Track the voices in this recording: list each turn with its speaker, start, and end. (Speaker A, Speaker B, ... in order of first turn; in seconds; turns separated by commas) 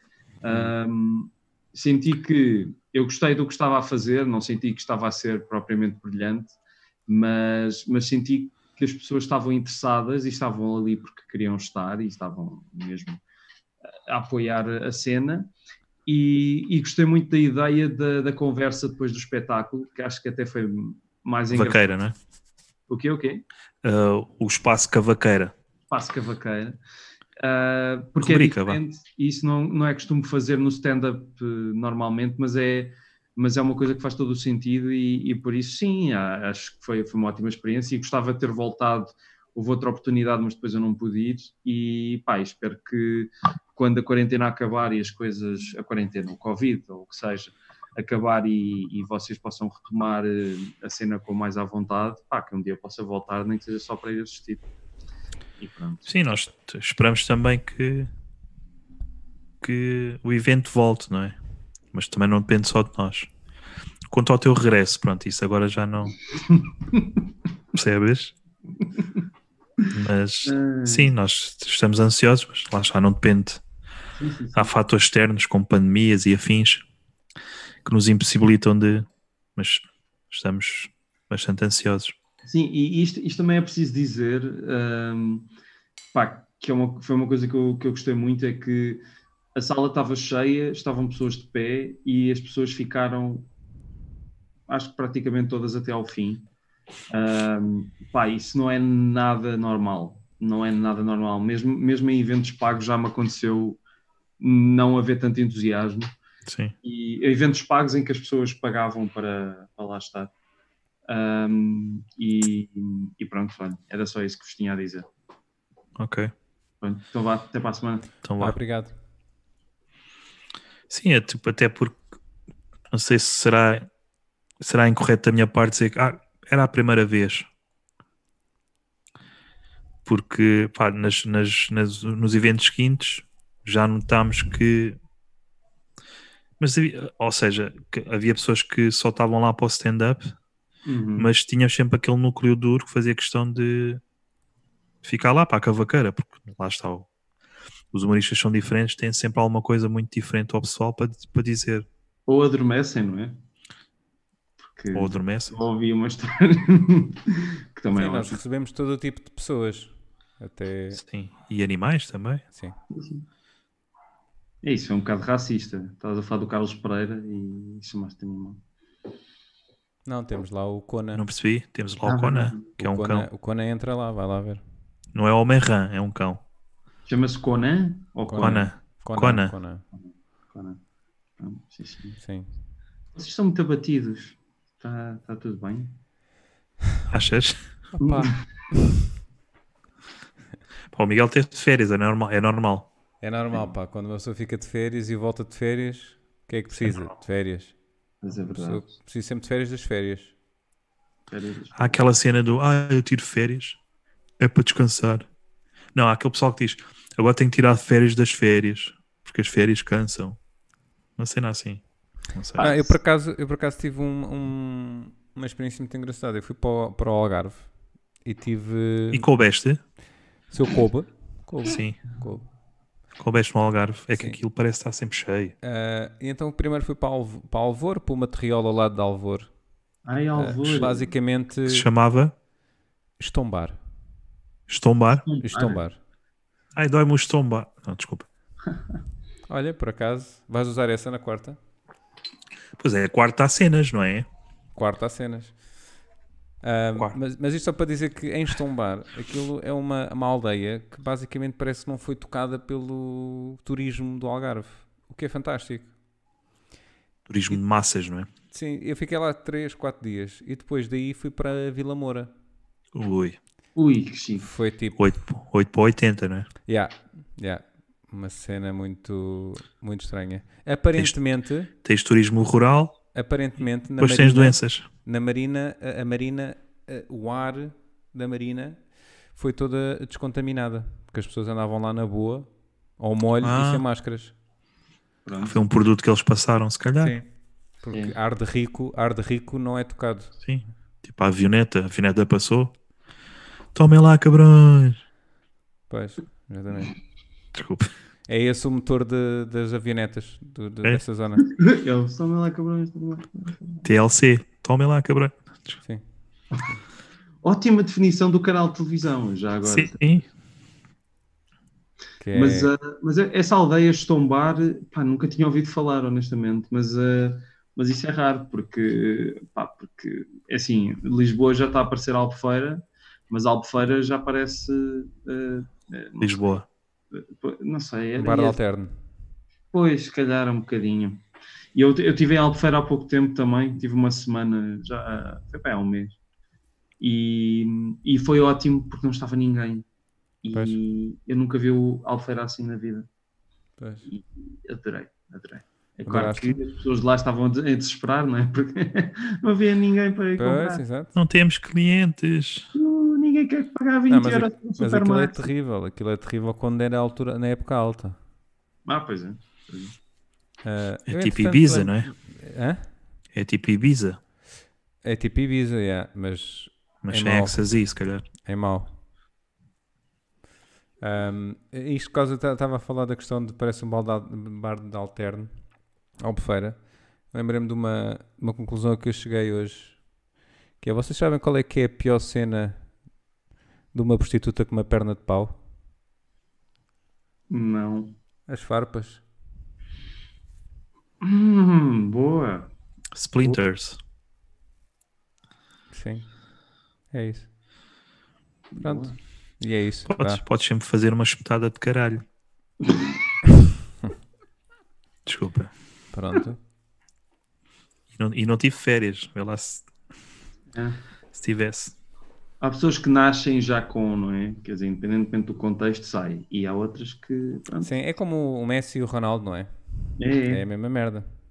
Speaker A: 0.4-13.2, Speaker A: 14.1-15.5, Speaker A: 16.1-21.8, Speaker B: 21.5-22.1, Speaker A: 22.9-23.4, Speaker B: 23.8-25.5, Speaker A: 25.9-26.8, Speaker A: 27.4-54.6, Speaker B: 28.2-28.8, Speaker A: 55.6-56.1, Speaker B: 56.1-58.1, Speaker B: 59.6-61.4, Speaker B: 61.9-63.3, Speaker B: 64.1-66.2, Speaker A: 66.3-67.2, Speaker B: 67.7-68.3, Speaker B: 69.9-73.6, Speaker A: 70.5-71.1, Speaker A: 74.2-74.7, Speaker B: 74.6-76.8, Speaker B: 77.8-82.1, Speaker A: 82.5-85.5, Speaker A: 86.1-89.0, Speaker A: 89.5-93.5, Speaker A: 94.7-96.5, Speaker A: 97.1-103.8, Speaker A: 104.4-106.1, Speaker B: 106.5-106.8, Speaker A: 106.8-110.3, Speaker A: 111.1-115.1, Speaker B: 116.0-116.3, Speaker A: 116.8-118.1, Speaker B: 118.2-118.6, Speaker C: 118.4-118.9, Speaker B: 120.9-122.0, Speaker B: 122.9-123.9, Speaker B: 124.6-127.5, Speaker B: 130.1-135.0, Speaker B: 136.6-140.3, Speaker A: 140.9-141.3, Speaker B: 141.2-144.0, Speaker B: 145.0-147.1, Speaker B: 147.9-151.9, Speaker A: 152.3-153.4, Speaker A: 154.7-158.4, Speaker B: 154.9-155.6, Speaker C: 157.9-161.0, Speaker B: 160.9-162.4, Speaker A: 162.9-163.2, Speaker A: 164.6-168.6, Speaker C: 170.1-171.2, Speaker B: 171.2-173.3, Speaker A: 172.1-172.7, Speaker C: 172.8-174.6, Speaker B: 175.1-176.4, Speaker A: 177.1-178.7, Speaker C: 178.3-179.8, Speaker B: 178.4-179.6, Speaker A: 180.5-180.8, Speaker A: 181.4-182.2, Speaker C: 182.2-182.5, Speaker A: 183.2-185.9, Speaker B: 187.1-187.7, Speaker C: 188.0-188.4, Speaker A: 188.0-188.3, Speaker B: 190.9-192.9, Speaker C: 193.2-197.8, Speaker A: 198.2-198.9, Speaker C: 198.6-200.3, Speaker A: 201.3-202.0, Speaker B: 201.8-203.8, Speaker B: 204.4-205.3, Speaker B: 205.9-210.4, Speaker B: 211.2-211.8, Speaker B: 212.3-212.7, Speaker A: 212.6-213.0, Speaker C: 212.6-217.7, Speaker C: 218.2-219.3, Speaker B: 219.1-219.8, Speaker C: 220.5-222.4, Speaker B: 221.7-222.0, Speaker B: 223.2-225.6, Speaker C: 225.6-229.5, Speaker A: 230.1-231.1, Speaker C: 230.4-231.9, Speaker B: 231.7-232.3, Speaker C: 233.2-233.8, Speaker B: 234.7-235.2, Speaker A: 235.2-235.8, Speaker C: 235.4-236.0, Speaker B: 236.8-238.3, Speaker C: 239.5-241.6, Speaker B: 242.8-244.3, Speaker C: 244.8-245.5, Speaker C: 246.6-255.9, Speaker B: 257.3-258.3, Speaker C: 258.5-262.3, Speaker B: 262.9-263.4, Speaker A: 263.8-264.5, Speaker C: 264.4-265.0, Speaker B: 265.0-266.5, Speaker C: 266.7-271.7, Speaker B: 271.8-273.0, Speaker C: 273.1-278.8, Speaker B: 274.0-274.9, Speaker C: 279.3-282.5, Speaker C: 283.0-284.3, Speaker B: 283.4-283.8, Speaker A: 285.2-285.6, Speaker B: 285.4-287.2, Speaker C: 287.0-287.3, Speaker C: 287.8-290.4, Speaker B: 290.4-292.7, Speaker B: 293.8-295.0, Speaker C: 295.9-297.0, Speaker B: 297.6-297.9, Speaker C: 298.3-301.5, Speaker A: 301.4-303.9, Speaker B: 303.9-305.8, Speaker A: 307.4-310.1, Speaker B: 309.7-310.3, Speaker C: 312.2-312.7, Speaker A: 312.3-326.5, Speaker B: 326.2-326.7, Speaker A: 327.1-328.6, Speaker C: 328.2-328.9, Speaker A: 329.7-331.2, Speaker A: 331.8-336.2, Speaker A: 337.0-339.9, Speaker A: 340.4-343.1, Speaker C: 343.8-344.1, Speaker A: 344.1-350.8, Speaker C: 346.1-346.6, Speaker C: 350.4-351.1, Speaker B: 351.2-352.7, Speaker A: 352.7-355.5, Speaker C: 354.1-358.2, Speaker A: 358.9-359.9, Speaker C: 360.6-362.9, Speaker B: 361.1-362.1, Speaker B: 363.3-364.2, Speaker C: 365.0-367.7, Speaker B: 367.0-368.2, Speaker C: 368.4-368.9, Speaker C: 371.0-375.5, Speaker C: 376.2-376.8, Speaker C: 377.3-380.0, Speaker C: 380.8-382.8, Speaker C: 383.9-385.5, Speaker A: 387.5-388.1, Speaker C: 388.5-389.2, Speaker A: 391.2-392.7, Speaker B: 393.1-394.0, Speaker C: 395.9-396.3, Speaker C: 397.1-397.5, Speaker A: 398.7-399.1, Speaker C: 398.8-400.4, Speaker B: 400.1-402.2, Speaker A: 402.9-403.1, Speaker B: 405.2-405.7, Speaker C: 406.1-406.6, Speaker B: 408.1-409.9, Speaker B: 411.3-411.9, Speaker A: 412.6-417.9, Speaker C: 417.8-419.7, Speaker A: 420.2-420.6, Speaker C: 420.5-421.2